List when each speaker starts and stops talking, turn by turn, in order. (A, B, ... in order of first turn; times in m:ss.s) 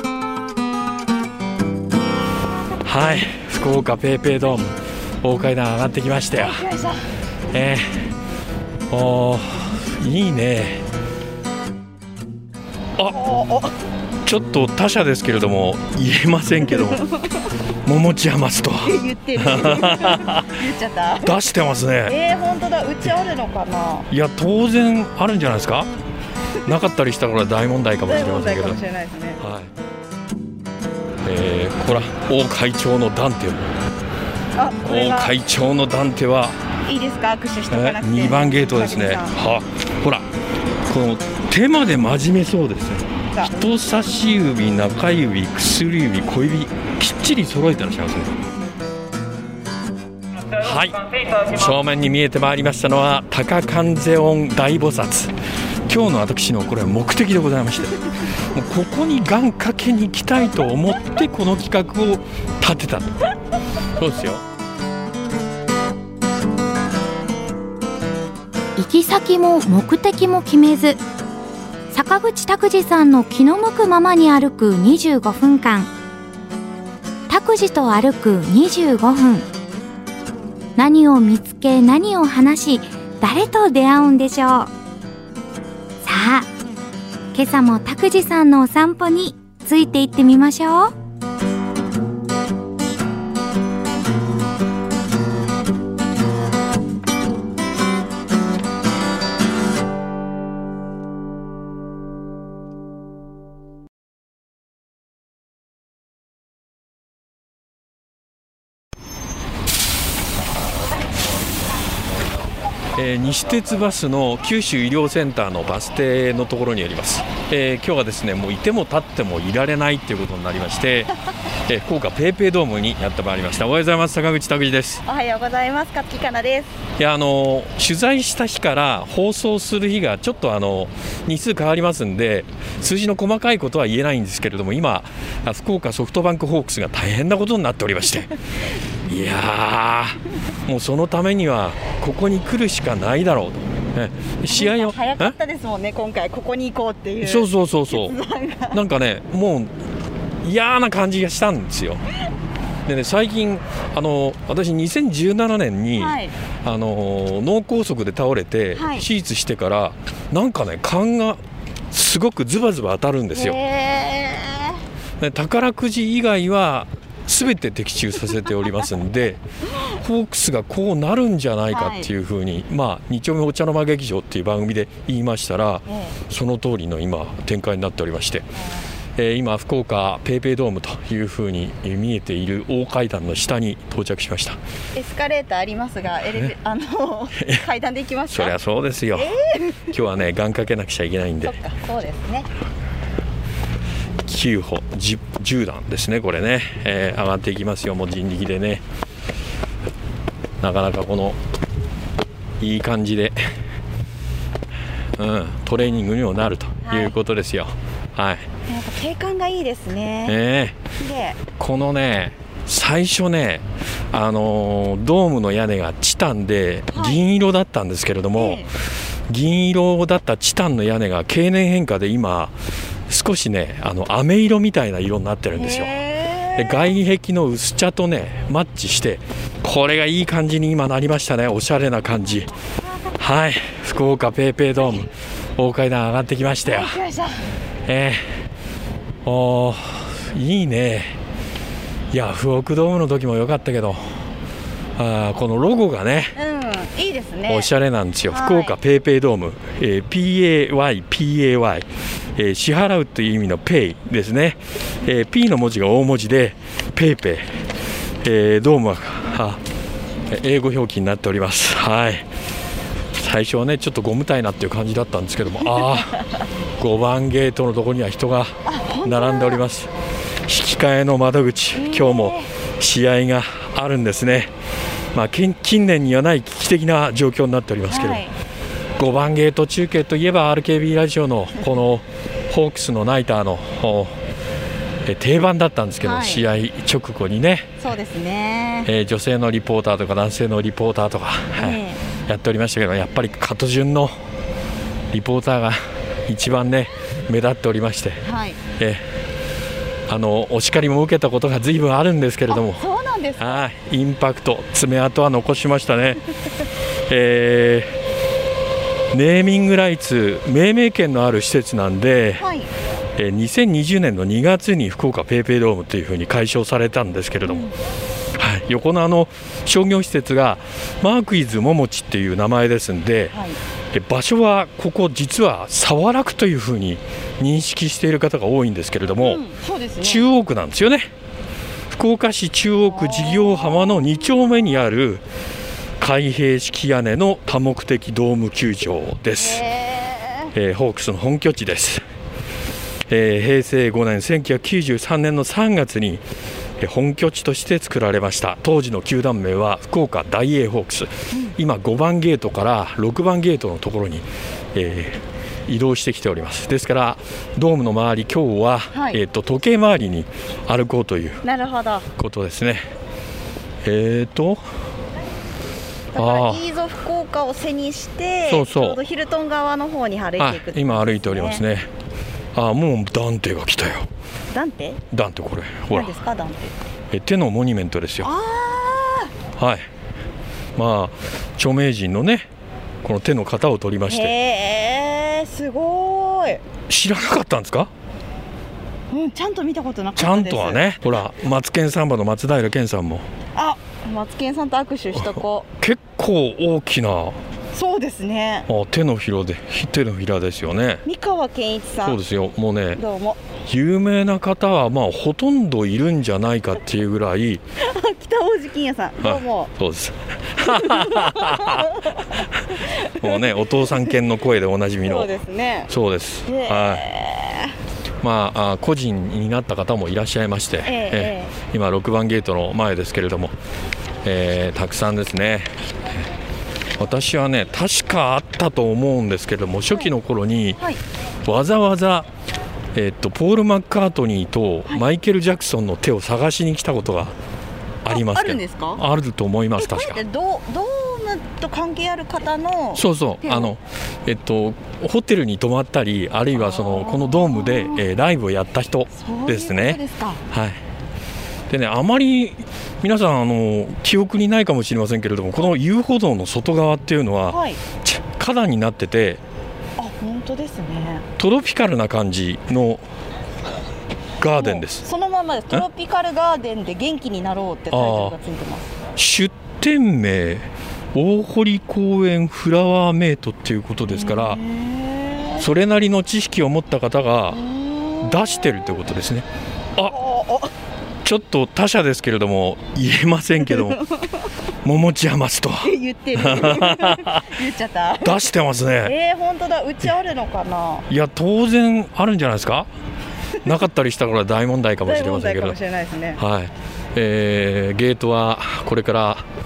0:02.8-0:06.6 A
0:06.3-0:07.0 B
0:07.5-0:08.0 A
0:08.9-0:10.8 A
0:13.0-0:13.7 B
0:14.2-0:17.0 A
0:16.8-0:17.5 B
0:17.8-0:20.5 A
0:18.8-0:21.4 B
0:21.2-0:22.1 A
0:22.0-0:24.1 B
0:24.1-0:25.9 A
0:26.6-0:28.8 A
0:28.0-0:29.4 B
0:29.4-0:29.7 A
0:31.2-0:33.7 A
0:34.6-0:35.3 B
0:34.8-0:36.6 A
0:36.9-0:39.4 B
0:37.7-0:40.3 A
0:40.9-0:48.4 A
0:50.6-0:55.4 A
0:55.9-1:03.2 A
1:04.0-1:04.4 A
1:08.8-1:11.0 C
1:11.9-1:15.9 C
1:17.3-1:19.4 C
1:20.8-1:24.7 C
1:26.0-1:26.5 C
1:27.3-1:30.9 C
1:53.0-2:01.1 A
2:01.6-2:05.0 A
2:05.0-2:06.8 B
2:07.0-2:18.3 A
2:19.1-2:25.3 A
2:24.5-2:28.8 B
2:27.2-2:28.2 A
2:28.7-2:29.7 A
2:30.4-2:32.0 A
2:32.8-2:43.6 A
2:36.0-2:36.3 B
2:38.7-2:39.1 B
2:43.3-2:44.8 B
2:45.2-2:58.5 A
2:51.7-2:52.1 B
2:55.9-2:56.2 B
2:59.2-3:04.6 A
3:04.9-3:08.5 B
3:07.4-3:07.6 A
3:08.3-3:09.4 A
3:09.1-3:09.8 B
3:09.9-3:11.6 A
3:11.4-3:12.5 B
3:14.2-3:18.8 A
3:20.6-3:21.4 A
3:22.6-3:23.4 A
3:25.2-3:28.5 A
3:26.8-3:27.1 B
3:28.7-3:30.4 B
3:30.2-3:30.8 A
3:30.9-3:31.4 B
3:31.6-3:38.7 A
3:36.9-3:37.2 B
3:38.4-3:38.7 B
3:39.3-3:42.6 A
3:43.1-3:45.9 A
3:45.6-3:46.9 B
3:46.5-3:52.5 A
3:53.2-3:57.0 A
3:56.6-3:57.4 B
3:57.8-3:58.3 A
3:59.2-4:01.2 A
4:02.1-4:04.2 A
4:05.0-4:06.3 A
4:06.4-4:07.7 B
4:07.5-4:17.4 A
4:08.3-4:08.8 B
4:18.2-4:19.6 A
4:20.3-4:22.2 A
4:23.1-4:26.2 A
4:26.8-4:29.9 A
4:28.6-4:29.6 B
4:30.4-4:34.5 A
4:31.7-4:32.5 B
4:35.1-4:38.2 A
4:37.9-4:38.3 B
4:39.0-4:44.2 A
4:45.0-4:47.7 A
4:46.0-4:46.4 B
4:47.8-4:48.9 B
4:48.8-4:54.1 A
4:51.6-4:52.0 B
4:55.1-4:58.2 A
4:58.2-4:58.6 B
4:58.8-4:59.0 A
5:00.1-5:02.8 A
5:02.5-5:03.6 B
5:03.4-5:06.2 A
5:07.1-5:07.9 A
5:09.1-5:12.4 A
5:12.4-5:12.7 B
5:13.2-5:17.7 A
5:17.4-5:17.8 B
5:18.4-5:23.3 A
5:23.3-5:23.6 B
5:23.9-5:29.4 A
5:29.2-5:30.2 B
5:30.0-5:31.1 A
5:31.9-5:35.2 A
5:32.9-5:34.0 B
5:36.0-5:39.6 A
5:39.3-5:40.5 B
5:40.5-5:42.0 A
5:43.1-5:46.2 A
5:46.8-6:01.4 A
5:58.9-5:59.2 B
6:01.4-6:02.1 B
6:02.2-6:02.9 A
6:03.8-6:04.6 A
6:06.1-6:11.6 B
6:06.2-6:06.6 A
6:08.5-6:09.0 A
6:10.4-6:11.9 A
6:12.6-6:14.1 A
6:14.5-6:15.0 B
6:15.1-6:16.2 A
6:15.9-6:16.7 B
6:17.1-6:18.3 A
6:18.2-6:19.3 B
6:19.6-6:19.8 A
6:20.8-6:22.5 A
6:23.0-6:24.3 A
6:24.1-6:26.6 B
6:26.9-6:27.9 A
6:29.1-6:30.8 B
6:30.2-6:33.2 A
6:33.6-6:35.7 B
6:35.8-6:37.4 A
6:37.7-6:38.7 B
6:38.7-6:41.0 A
6:41.0-6:42.2 B
6:42.0-6:43.0 A
6:43.0-6:43.4 B
6:43.6-6:47.6 A
6:47.8-6:49.7 B
6:49.2-6:55.3 A
6:50.6-6:54.1 B
6:55.0-6:55.9 B
6:55.9-6:57.0 A
6:56.5-6:57.8 B
6:58.2-7:03.5 A
7:00.8-7:01.6 B
7:04.2-7:06.2 A
7:07.0-7:10.8 A
7:11.4-7:12.3 A
7:12.9-7:17.3 A
7:18.0-7:20.2 A
7:18.1-7:19.0 B
7:19.8-7:23.7 B
7:23.0-7:30.0 A
7:26.6-7:28.0 B
7:29.1-7:30.4 B
7:30.5-7:30.8 A
7:31.7-7:39.4 A
7:37.5-7:37.8 B
7:40.0-7:41.2 B
7:41.4-7:43.0 A
7:44.4-7:45.0 A
7:44.6-7:49.0 B
7:47.9-7:48.3 A
7:49.2-7:54.6 A
7:54.1-7:55.7 B
7:55.6-7:57.6 A
7:57.5-7:58.9 B
7:58.2-8:00.1 A
8:00.0-8:00.7 B
8:01.2-8:04.0 A
8:03.6-8:04.4 B
8:04.8-8:07.6 A
8:05.8-8:08.5 B
8:08.2-8:09.1 A
8:09.0-8:11.1 B
8:11.1-8:12.9 A
8:13.6-8:15.8 A
8:15.0-8:16.4 B
8:16.4-8:19.4 A